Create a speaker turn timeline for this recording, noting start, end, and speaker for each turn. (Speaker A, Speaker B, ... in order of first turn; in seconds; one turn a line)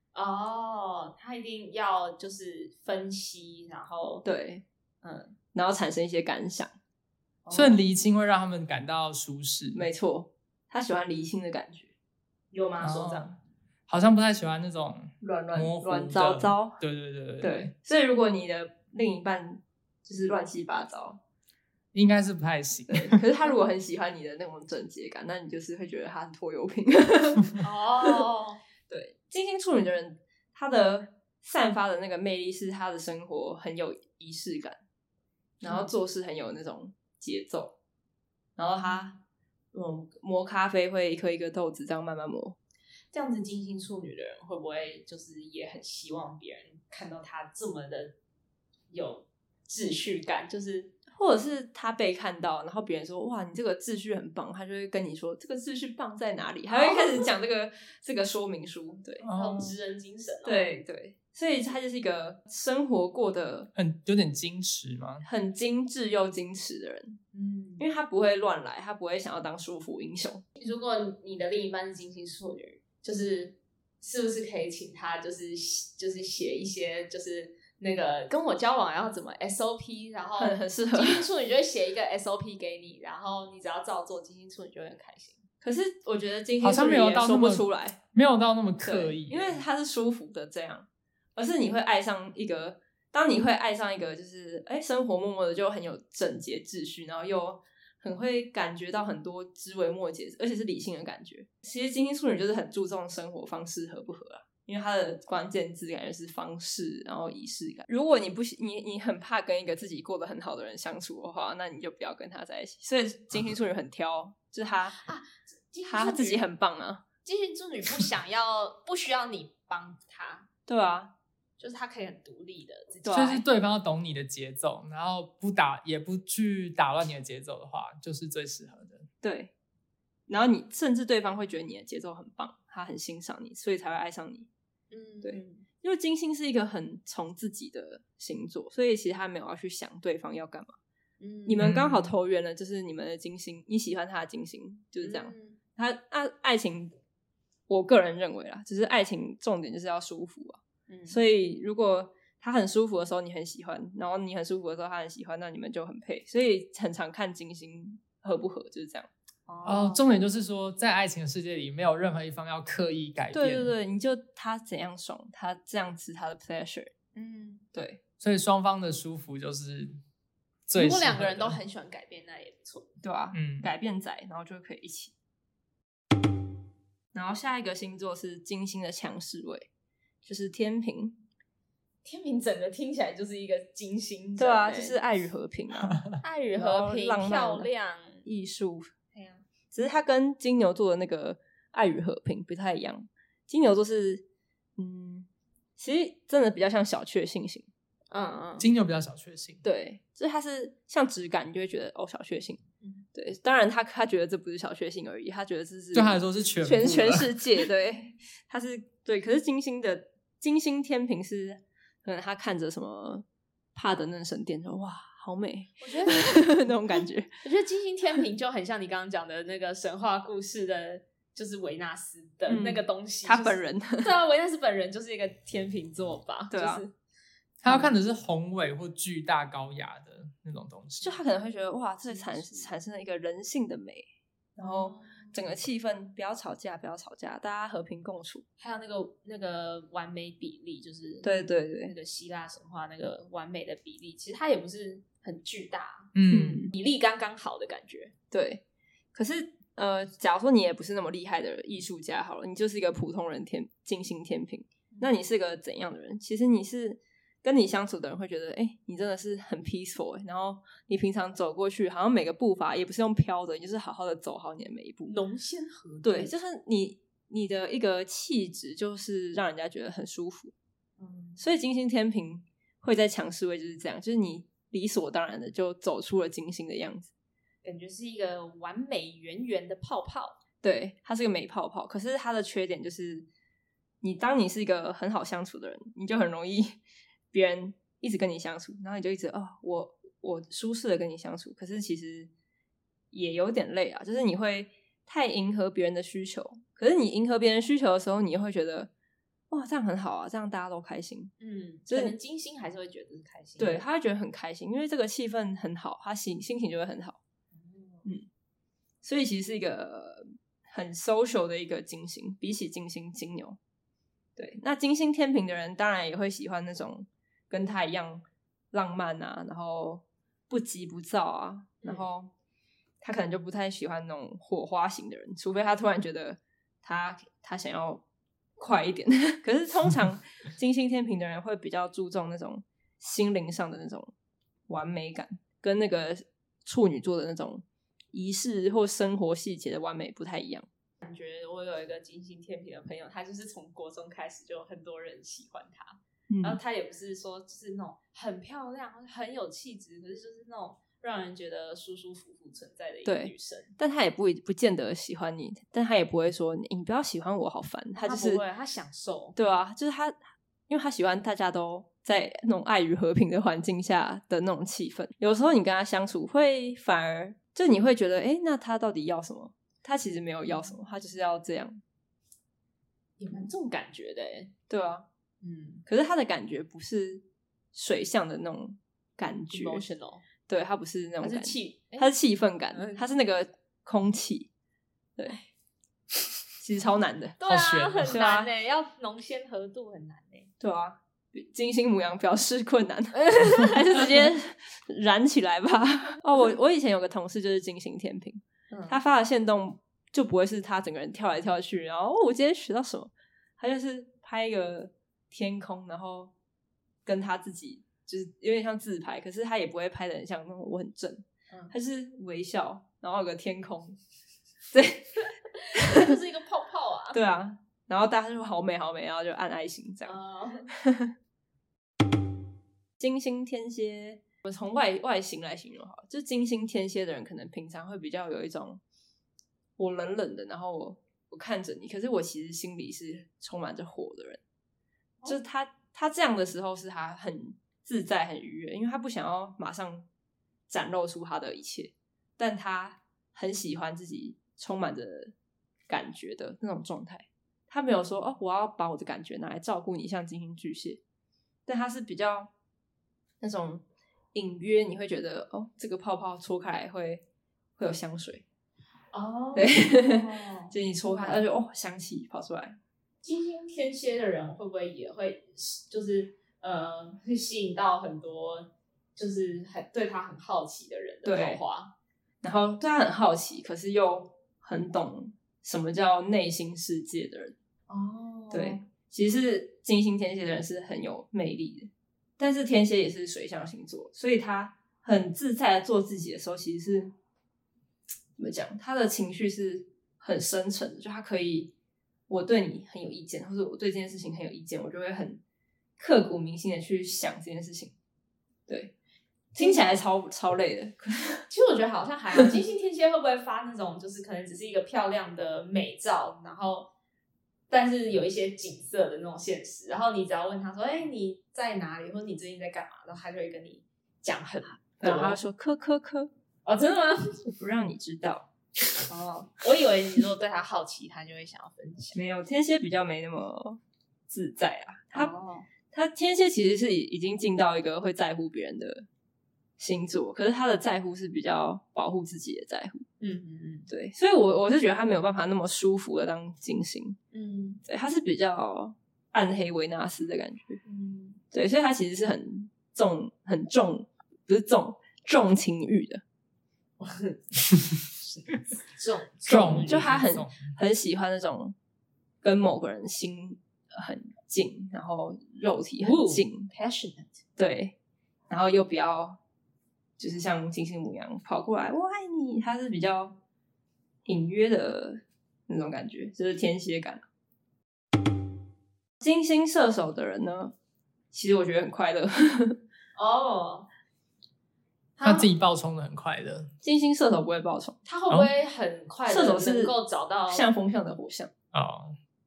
Speaker A: 0.1-4.2
Speaker B: 4.2-4.6
Speaker A: 5.0-5.3
Speaker B: 5.5-6.7
Speaker A: 7.4-7.8
Speaker C: 7.5-9.8
Speaker B: 9.7-11.9
Speaker A: 12.5-13.3
Speaker C: 12.8-13.3
Speaker C: 13.9-17.7
Speaker B: 15.2-16.8
Speaker B: 17.4-21.2
Speaker C: 21.9-23.2
Speaker B: 22.9-28.2
Speaker A: 27.6-28.6
Speaker B: 28.9-34.8
Speaker B: 35.6-37.8
Speaker A: 35.6-35.9
Speaker B: 38.6-39.2
Speaker B: 39.7-42.6
Speaker A: 43.1-48.1
Speaker A: 48.9-50.9
Speaker B: 51.1-59.2
Speaker A: 56.7-57.3
Speaker C: 59.2-59.8
Speaker A: 59.3-60.8
Speaker B: 60.4-63.7
Speaker C: 63.7-65.2
Speaker B: 65.2-67.2
Speaker A: 67.3-67.8
Speaker B: 67.8-70.4
Speaker A: 70.6-85.4
Speaker B: 80.4-81.2
Speaker B: 85.6-88.0
Speaker C: 86.6-89.6
Speaker B: 88.8-115.0
Speaker A: 115.0-116.4
Speaker B: 115.9-117.0
Speaker A: 117.2-120.5
Speaker B: 120.7-121.1
Speaker A: 121.6-123.4
Speaker B: 123.0-123.4
Speaker C: 123.1-129.1
Speaker B: 129.2-129.5
Speaker B: 130.3-134.5
Speaker A: 134.9-135.6
Speaker B: 135.2-140.8
Speaker A: 141.2-141.8
Speaker B: 141.4-146.9
Speaker C: 141.6-142.1
Speaker A: 145.0-145.6
Speaker B: 147.7-159.1
Speaker A: 150.9-151.2
Speaker A: 159.5-160.0
Speaker C: 159.6-163.7
Speaker B: 163.3-166.9
Speaker A: 167.1-167.6
Speaker B: 167.7-168.0
Speaker C: 168.2-170.0
Speaker C: 170.7-171.6
Speaker A: 170.7-172.9
Speaker B: 173.0-175.1
Speaker C: 173.3-173.7
Speaker B: 177.1-179.7
Speaker B: 180.2-181.2
Speaker A: 182.0-185.0
Speaker B: 184.4-187.7
Speaker A: 186.2-188.2
Speaker B: 188.2-188.9
Speaker A: 189.1-189.4
Speaker B: 189.7-194.2
Speaker B: 194.8-197.7
Speaker A: 198.1-198.7
Speaker C: 198.6-199.6
Speaker B: 199.6-202.6
Speaker B: 203.1-217.3
Speaker C: 205.9-207.6
Speaker A: 215.8-216.6
Speaker A: 217.4-226.9
Speaker B: 222.5-224.1
Speaker B: 226.5-226.8
Speaker C: 227.6-231.2
Speaker B: 231.0-234.0
Speaker A: 232.0-232.7
Speaker B: 234.6-238.4
Speaker A: 234.6-235.4
Speaker A: 238.6-241.3
Speaker B: 241.2-241.9
Speaker A: 241.8-248.1
Speaker C: 246.1-246.6
Speaker B: 246.3-246.7
Speaker B: 248.3-248.6
Speaker B: 249.1-265.1
Speaker A: 265.1-266.3
Speaker B: 266.0-270.5
Speaker A: 271.0-271.4
Speaker B: 271.4-277.1
Speaker A: 277.6-280.4
Speaker B: 280.6-283.3
Speaker B: 284.0-286.8
Speaker B: 287.3-292.3
Speaker B: 293.1-298.9
Speaker B: 299.5-301.3
Speaker A: 301.4-303.8
Speaker B: 301.9-302.1
Speaker B: 303.6-307.2
Speaker A: 307.5-308.1
Speaker B: 309.0-313.6
Speaker B: 314.4-322.3
Speaker B: 323.0-328.0
Speaker B: 328.6-334.1
Speaker B: 334.7-340.7
Speaker A: 341.0-353.8
Speaker B: 346.3-346.6
Speaker B: 353.0-358.4
Speaker A: 357.9-359.4
Speaker B: 359.4-360.2
Speaker B: 360.7-371.8
Speaker A: 370.5-370.7
Speaker A: 373.2-374.5
Speaker B: 374.7-375.1
Speaker A: 375.4-375.8
Speaker B: 375.9-379.8
Speaker A: 379.5-380.2
Speaker B: 380.5-384.5
Speaker A: 381.2-382.1
Speaker A: 382.7-383.0
Speaker B: 386.6-387.4
Speaker A: 387.4-390.5
Speaker C: 387.4-388.2
Speaker B: 388.1-388.5
Speaker B: 390.6-406.3
Speaker A: 393.3-393.8
Speaker A: 398.7-399.0
Speaker B: 407.0-414.0
Speaker B: 414.7-415.2
Speaker A: 415.7-417.2
Speaker B: 415.7-416.1
Speaker B: 417.1-420.2
Speaker A: 420.0-420.7
Speaker B: 420.7-421.1
Speaker B: 423.0-428.8
Speaker B: 429.8-434.4
Speaker B: 435.2-440.1
Speaker B: 440.7-445.3
Speaker B: 445.9-451.0
Speaker B: 451.6-452.5
Speaker B: 453.4-453.8
Speaker B: 454.3-457.2
Speaker B: 457.8-458.4
Speaker A: 459.1-461.4
Speaker B: 459.5-462.8
Speaker A: 463.2-471.9
Speaker B: 471.2-471.6
Speaker B: 472.4-477.5
Speaker A: 477.9-478.8
Speaker B: 478.5-487.1
Speaker B: 488.4-491.7
Speaker B: 492.3-495.4
Speaker B: 496.0-497.9
Speaker B: 498.7-498.9
Speaker B: 499.5-501.4
Speaker A: 499.6-499.9
Speaker A: 501.5-506.9
Speaker A: 507.7-515.4
Speaker B: 515.0-516.3
Speaker A: 516.6-517.5
Speaker B: 517.5-518.5
Speaker A: 519.0-522.1
Speaker B: 522.1-525.3
Speaker A: 525.1-525.7
Speaker B: 525.9-529.1
Speaker B: 529.8-533.0
Speaker A: 533.2-533.9
Speaker B: 533.9-537.2
Speaker A: 537.3-537.8
Speaker B: 537.8-540.8
Speaker A: 540.8-541.4
Speaker B: 541.5-546.2
Speaker A: 547.0-550.1
Speaker C: 549.5-550.7
Speaker B: 549.5-551.7
Speaker B: 552.4-556.7
Speaker A: 556.0-557.4
Speaker B: 557.6-557.9
Speaker B: 558.5-559.4
Speaker B: 560.2-563.4
Speaker B: 564.2-567.2
Speaker B: 569.2-570.7
Speaker B: 571.3-572.8
Speaker A: 573.1-573.9
Speaker A: 575.2-575.5
Speaker C: 575.2-576.7
Speaker B: 576.8-578.0
Speaker A: 578.0-580.7
Speaker B: 579.2-579.9
Speaker B: 580.5-581.5
Speaker C: 581.7-582.2